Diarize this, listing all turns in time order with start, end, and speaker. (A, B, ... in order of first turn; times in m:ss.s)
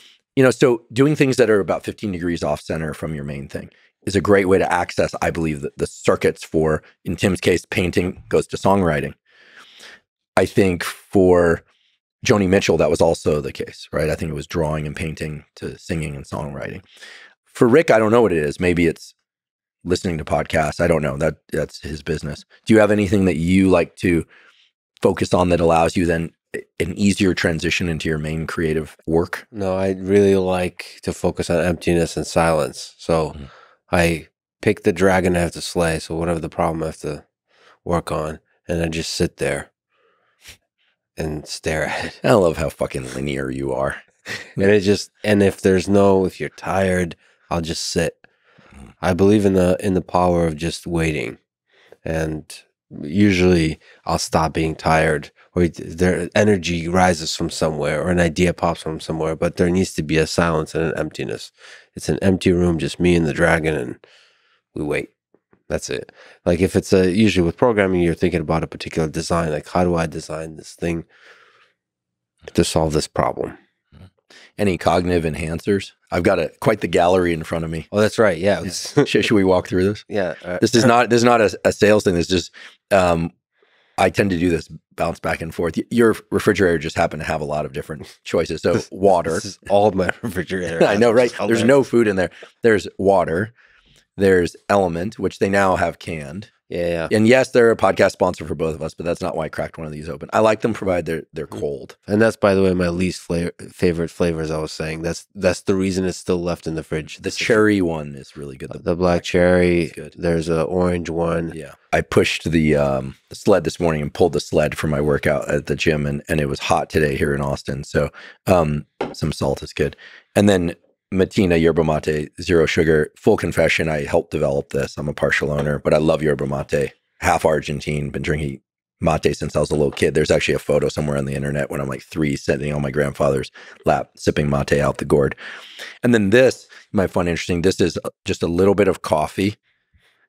0:00.4-0:09.2 A
0:10.4-0:11.6 A
0:12.2-0:16.8 A
0:17.5-0:19.2 A
0:19.9-0:24.3 A
0:25.0-0:29.5 A
0:29.5-0:37.2 B
0:37.8-0:39.7 B
0:41.2-0:42.2 B
0:42.2-0:44.0 A
0:44.6-0:48.2 B
0:49.0-0:51.4 B
0:52.0-1:04.0 B
1:04.7-1:05.1 B
1:05.7-1:11.1 B
1:12.5-1:13.6 B
1:14.6-1:17.9 A
1:17.9-1:19.1 B
1:19.0-1:20.0 A
1:20.1-1:20.9 B
1:20.6-1:23.3 A
1:24.0-1:29.5 A
1:29.1-1:31.8 B
1:30.8-1:33.5 A
1:34.2-1:36.5 A
1:36.7-1:37.1 B
1:37.1-1:42.0 A
1:42.1-1:47.6 B
1:47.2-1:50.2 A
1:48.7-1:51.6 B
1:51.5-2:15.4 A
2:16.0-2:19.6 A